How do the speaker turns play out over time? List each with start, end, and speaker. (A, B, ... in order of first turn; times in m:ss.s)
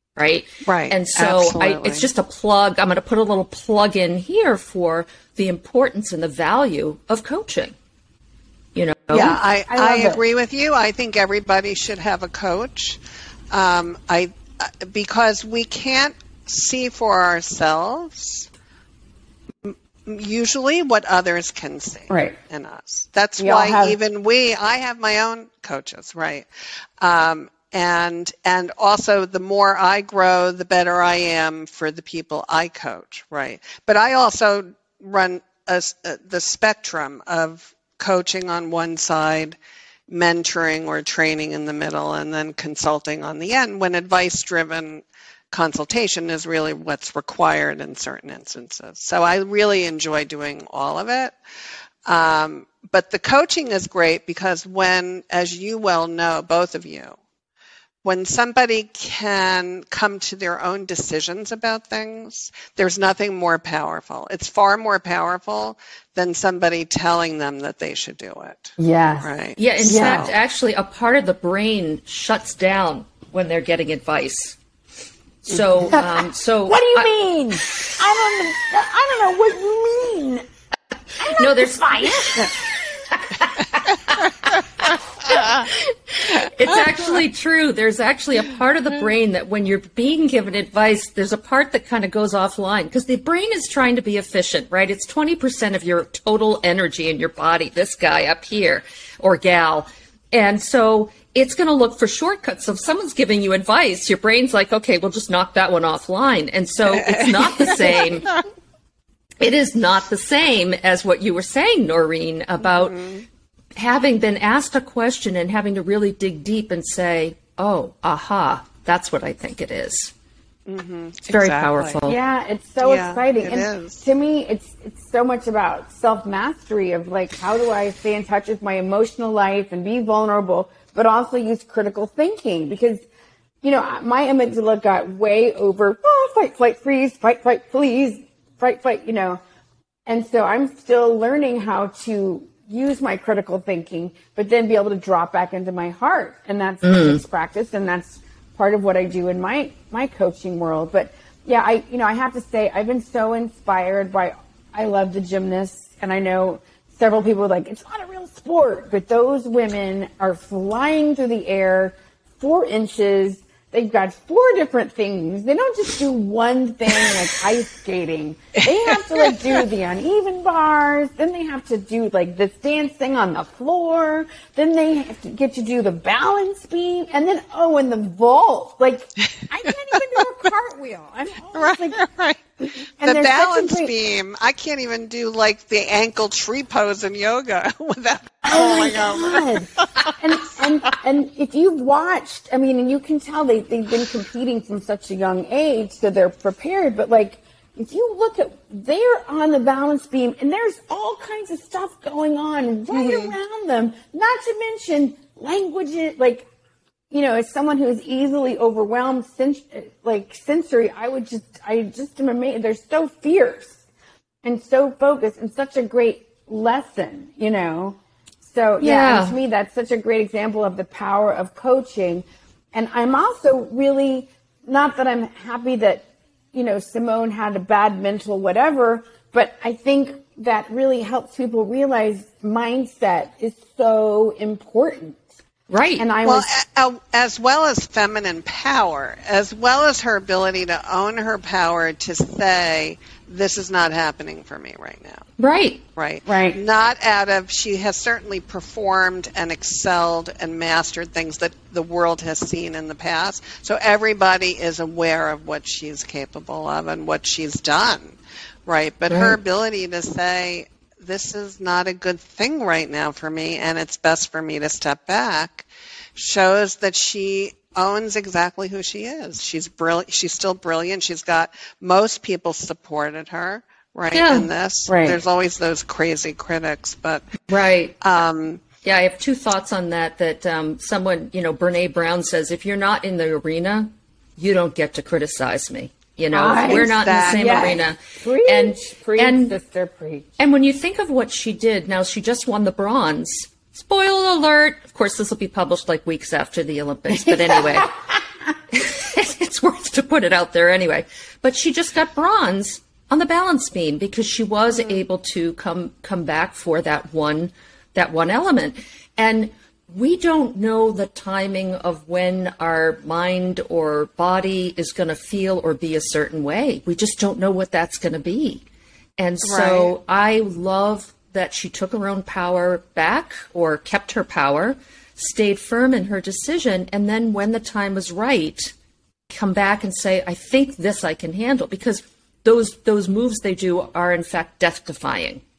0:00.2-0:07.7 A
0:00.6-0:02.0 B
0:08.7-0:09.4 A
0:09.1-0:13.0 B
0:09.1-0:10.2 C
0:13.5-0:18.5 B
0:19.6-0:26.5 B
0:22.1-0:22.4 C
0:23.4-0:24.0 C
0:27.0-0:39.6 B
0:40.1-0:51.3 B
0:52.0-0:57.2 B
0:58.0-1:10.3 B
1:08.8-1:10.3 C
1:09.6-1:14.6 A
1:15.5-1:17.1 A
1:15.5-1:15.9 B
1:15.9-1:20.4 C
1:17.6-1:18.0 A
1:21.2-1:22.6 C
1:21.2-1:22.5 A
1:23.4-1:24.3 A
1:25.3-1:48.3 A
1:46.9-1:48.1 B
1:49.4-1:53.0 A
1:52.6-1:53.2 B
1:53.7-2:00.1 A
2:00.7-2:02.0 B
2:01.3-2:02.2 A
2:02.0-2:13.0 C
2:02.8-2:04.0 B
2:13.6-2:19.4 C
2:20.0-3:02.0 C
2:26.8-2:27.2 A
2:48.8-2:49.4 B
3:01.5-3:02.4 B
3:02.6-3:03.9 C
3:03.0-3:10.1 B
3:08.4-3:26.4 C
3:22.9-3:23.3 B
3:27.1-3:33.8 C
3:34.4-3:55.2 C
3:38.8-3:39.3 A
3:55.7-3:56.1 A
3:56.0-3:56.5 C
3:56.2-4:05.2 B
4:05.4-4:05.8 A
4:06.0-4:37.4 B
4:06.2-4:06.6 C
4:19.1-4:19.4 A
4:34.1-4:34.5 A
4:34.9-4:35.2 C
4:37.5-4:38.0 A
4:38.0-4:38.6 B
4:38.8-4:49.6 A
4:46.3-4:50.3 C
4:46.6-4:47.8 B
4:50.4-4:57.9 A
4:57.1-4:58.1 C
4:58.7-5:18.6 A
5:19.2-5:28.7 A
5:19.4-5:19.9 B
5:29.3-5:35.4 A